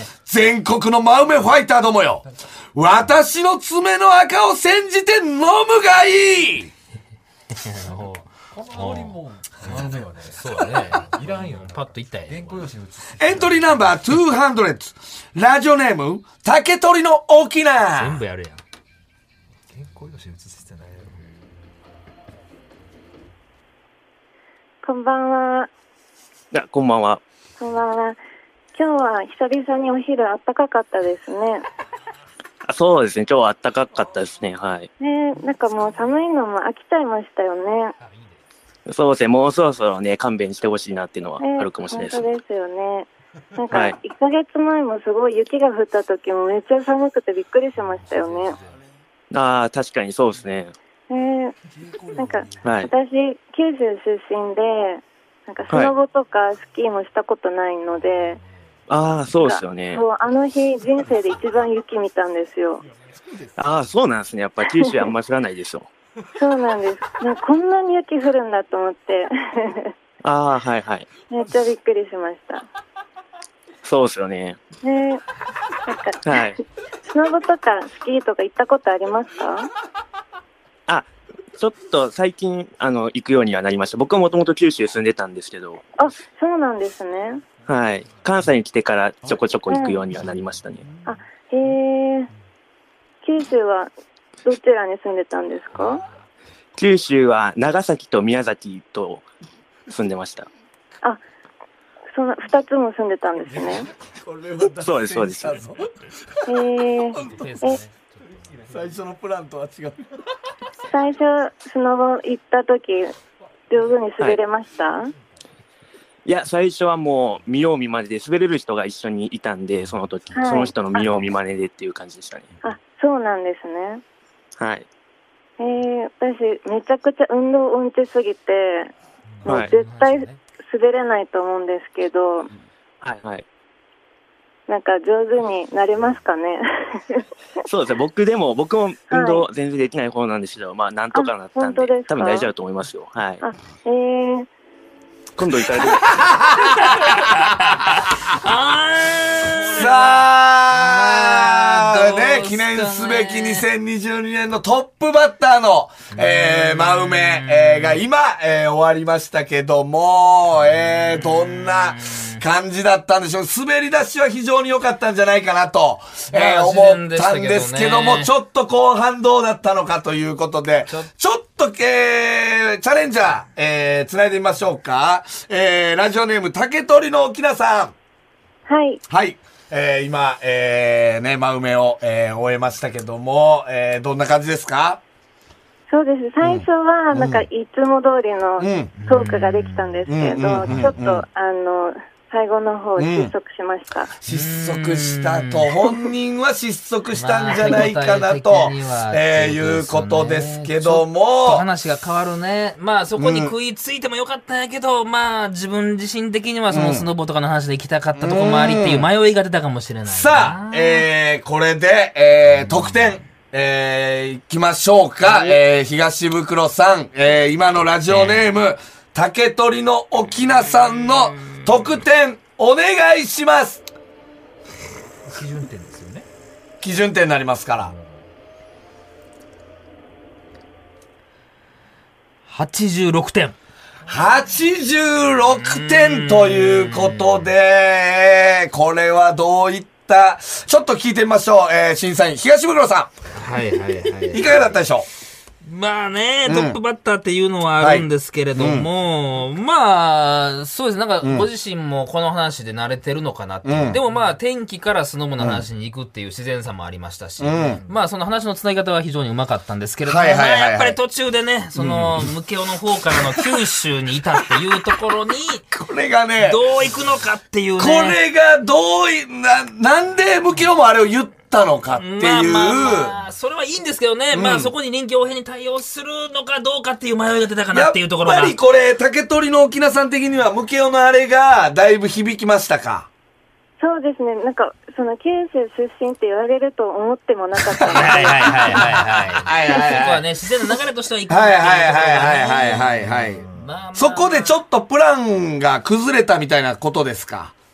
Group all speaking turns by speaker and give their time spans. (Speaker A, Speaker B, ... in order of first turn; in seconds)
Speaker A: 0.3-6.7, 13.2-18.2, 104.2-105.9, 108.7-110.0, 145.9-147.4, 149.6-177.9, 179.1-185.0, 186.4-187.5, 188.6-188.9, 190.1-191.2, 193.0-193.3, 194.2-201.6, 203.2-203.5, 206.7-207.1, 208.2-209.1, 210.1-223.8, 226.8-227.9, 234.1-243.1, 244.3-245.1, 246.5-246.8, 247.8-248.9, 251.2-251.5, 253.7-254.0, 255.4-255.7, 257.4-257.8, 260.1-261.0, 261.8-262.3, 263.1-263.6, 265.7-266.6, 267.8-273.2, 274.3-274.7, 277.7-283.1, 287.7-290.2, 291.3-297.5
Speaker B: 7.5-12.7, 17.9-18.6, 107.2-108.4, 129.8-130.4, 146.8-153.6, 156.1-158.0, 161.0-162.4, 166.3-168.3, 189.0-190.9, 194.3-195.8, 197.1-211.1, 215.3-215.6, 218.1-218.5, 221.2-221.6, 225.3-226.3, 232.5-233.6, 235.6-237.5, 243.3-244.6, 245.6-265.6, 266.4-268.2, 272.0-278.5, 287.9-294.6
Speaker C: 8.5-13.8, 19.7-21.2, 47.9-48.9, 51.7-52.9, 63.0-63.5, 87.7-88.3, 90.8-91.2, 95.8-96.1, 107.5-109.0, 120.3-121.3, 129.3-130.1
Speaker D: 24.8-25.7, 27.6-28.2, 28.8-31.7, 35.0-37.9, 41.4-48.6, 51.1-51.6, 52.1-58.4, 59.4-62.9, 64.6-65.0, 66.3-69.9, 71.3-72.7, 74.8-75.2, 75.8-76.3, 77.1-79.7, 86.0-87.4, 89.7-90.0, 91.0-92.3, 93.2-93.9, 94.5-96.0, 102.1-103.9, 106.5-107.8, 110.9-113.2, 113.7-115.1, 120.3-121.1, 122.6-124.0, 125.6-128.9, 129.4-132.5, 134.7-137.2, 139.1-139.5, 141.1-142.5, 143.4-144.5, 178.7-179.0, 185.9-194.1, 283.8-288.8
Speaker E: 26.5-27.2, 32.7-34.9, 38.9-42.3, 43.7-44.0, 49.3-50.7, 52.6-52.9, 55.7-55.9, 58.9-60.0, 63.6-65.9, 70.2-71.1, 73.8-74.6, 76.2-76.6, 80.9-85.8, 87.7-90.9, 96.8-99.3, 99.9-100.5, 104.8-105.6, 116.3-122.5, 124.6-124.9, 129.5-129.8, 133.0-133.4, 137.6-143.4, 145.4-146.2